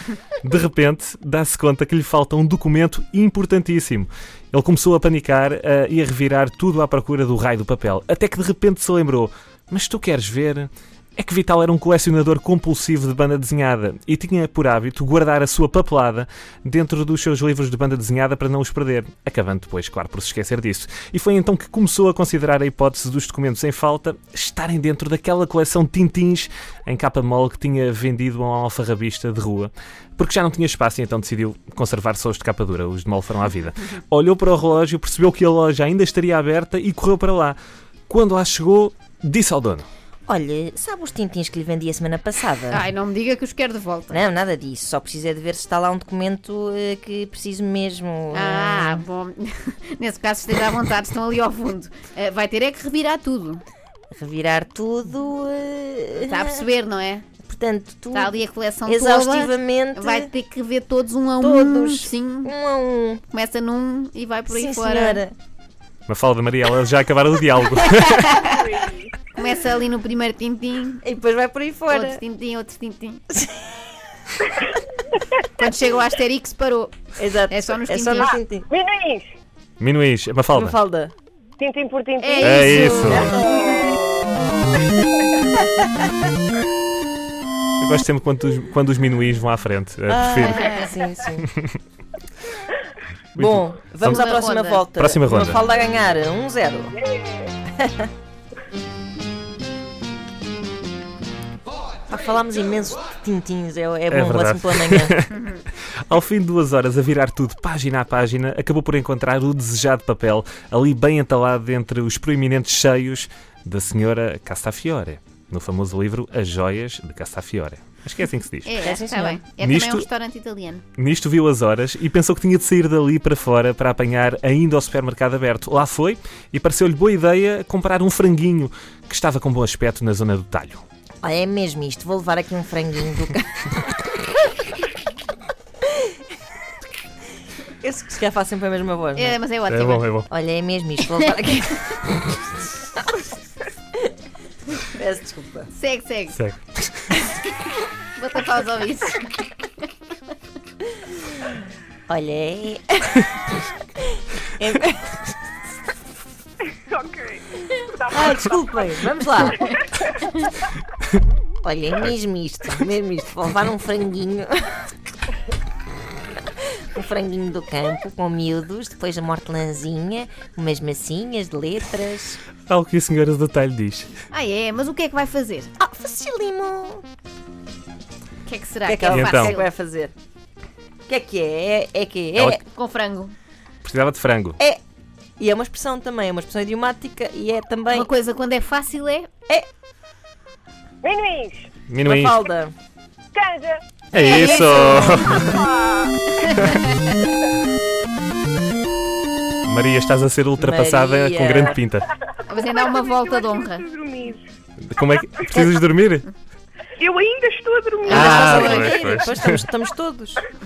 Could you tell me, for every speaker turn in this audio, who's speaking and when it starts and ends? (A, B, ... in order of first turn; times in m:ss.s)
0:00.4-0:37.6 A
0:38.1-0:39.9 A
0:40.3-0:42.9 B
0:42.7-0:44.2 C
0:44.1-0:49.0 B
0:48.3-0:53.6 C
0:54.1-0:56.6 B
0:56.3-0:57.3 C
0:57.4-1:00.3 B
0:58.1-1:02.5 C
1:01.4-1:03.2 B
1:03.3-1:05.2 C
1:04.5-1:05.4 B
1:06.1-1:08.4 A
1:07.8-1:08.6 C
1:08.4-1:09.2 D
1:09.3-1:11.0 C
1:11.0-1:12.2 B
1:11.9-1:13.2 C
1:13.3-1:13.9 B
1:15.4-1:18.4 C
1:17.2-1:18.7 B
1:18.2-1:19.3 E
1:19.8-1:20.8 A
1:20.5-1:21.1 B
1:21.6-1:24.6 E
1:22.2-1:23.4 C
1:22.4-1:23.3 A
1:22.7-1:23.8 B
1:27.8-1:30.6 A
1:30.1-1:31.5 B
1:33.4-1:34.2 A
1:33.4-1:37.0 B
1:34.0-1:34.8 C
1:35.0-1:35.6 A
1:36.9-1:37.6 E
1:37.8-1:38.1 B
1:42.1-1:45.2 B
1:44.1-1:45.3 A
1:45.3-1:45.6 C
1:46.1-1:58.7 A
1:58.6-2:00.8 C
1:58.8-1:59.4 B
1:59.6-2:00.1 A
2:01.0-2:10.8 A
2:11.2-2:13.8 B
2:15.9-2:16.2 B
2:17.8-2:19.4 B
2:19.2-2:20.1 C
2:19.7-2:20.3 A
2:20.3-2:22.4 B
2:24.8-2:25.7 B
2:25.7-2:26.4 C
2:26.4-2:27.1 A
2:28.2-2:29.3 C
2:32.1-2:33.2 B
2:34.1-2:35.2 B
2:36.7-2:37.8 D
2:37.9-2:40.0 E
2:38.1-2:39.6 B
2:41.6-2:44.9 B
2:46.6-2:52.4 B
2:52.7-2:54.1 A
2:54.3-2:55.7 C
2:55.8-2:57.0 B
2:58.4-2:59.7 C
2:58.8-3:00.1 B
2:59.2-2:59.5 A
3:01.1-3:02.6 B
3:02.6-3:03.3 C
3:03.8-3:04.6 A
3:05.4-3:08.1 B
3:07.9-3:09.3 C
3:11.0-3:11.7 E
3:11.9-3:12.4 A
3:12.0-3:12.7 B
3:13.3-3:14.7 E
3:14.1-3:15.7 A
3:14.2-3:15.2 C
3:14.3-3:15.3 B
3:15.2-3:16.4 D
3:19.6-3:22.1 A
3:20.6-3:21.8 B
3:22.5-3:23.9 C
3:22.6-3:24.4 D
3:24.9-3:26.3 A
3:25.5-3:25.8 B
3:27.0-3:28.1 D
3:28.1-3:29.0 C
3:28.1-3:30.5 B
3:28.1-3:29.7 A